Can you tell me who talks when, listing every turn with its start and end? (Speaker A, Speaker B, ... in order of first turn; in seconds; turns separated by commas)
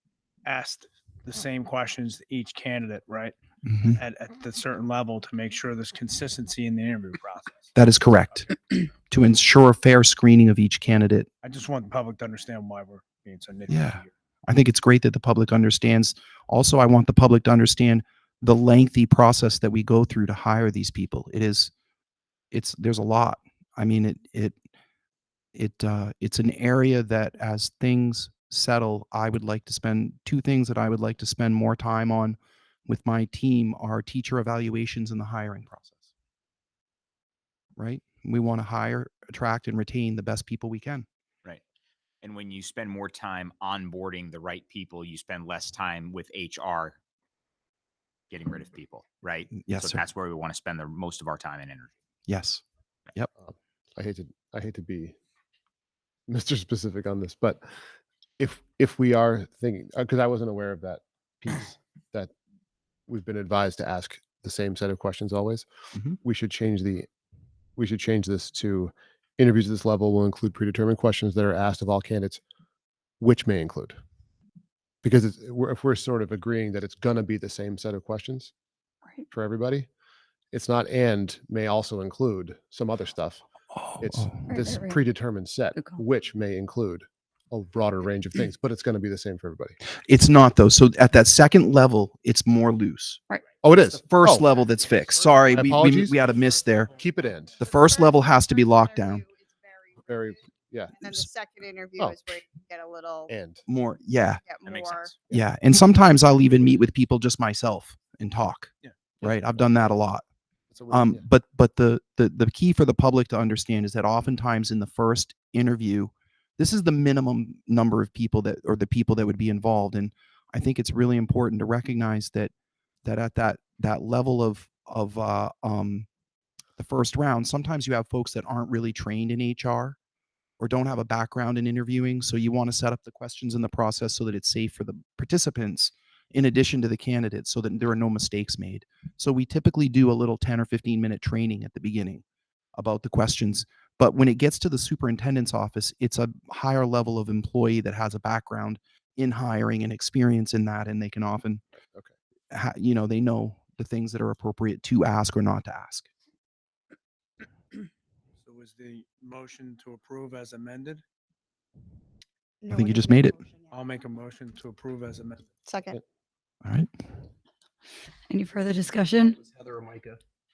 Speaker A: 0.4-3.3, Speaker B: 3.6-4.0, Speaker A: 3.9-7.7, Speaker B: 7.7-8.6, Speaker B: 9.1-11.3, Speaker A: 11.4-14.1, Speaker B: 13.7-21.7, Speaker B: 22.5-24.6, Speaker B: 25.5-36.1, Speaker B: 37.8-41.0, Speaker C: 42.2-47.0, Speaker C: 48.3-51.9, Speaker B: 49.6-50.0, Speaker B: 52.3-52.6, Speaker D: 53.4-55.1, Speaker D: 56.3-57.6, Speaker D: 58.4-62.3, Speaker D: 63.1-65.7, Speaker D: 66.2-67.1, Speaker D: 67.8-72.4, Speaker D: 73.2-74.0, Speaker D: 75.0-78.5, Speaker D: 79.3-79.9, Speaker D: 80.5-83.4, Speaker B: 83.7-84.5, Speaker D: 84.0-89.8, Speaker E: 84.4-85.0, Speaker E: 85.7-86.0, Speaker B: 90.0-93.2, Speaker D: 93.6-94.5, Speaker B: 93.9-96.9, Speaker D: 95.5-96.2, Speaker D: 96.9-97.6, Speaker B: 97.6-99.2, Speaker F: 97.6-100.4, Speaker D: 100.0-101.2, Speaker F: 101.0-103.3, Speaker D: 103.3-103.6, Speaker B: 103.7-104.4, Speaker F: 104.5-105.1, Speaker C: 104.6-105.2, Speaker B: 105.3-110.2, Speaker D: 109.2-109.9, Speaker D: 110.7-111.2, Speaker B: 110.9-122.5, Speaker B: 123.0-126.1, Speaker B: 126.8-130.0, Speaker B: 130.6-142.2, Speaker B: 142.8-151.6, Speaker B: 152.5-156.1, Speaker A: 158.4-161.0, Speaker F: 162.6-163.9, Speaker B: 162.7-163.4, Speaker A: 163.7-165.5, Speaker B: 166.6-166.9, Speaker E: 168.3-169.4, Speaker B: 169.2-170.2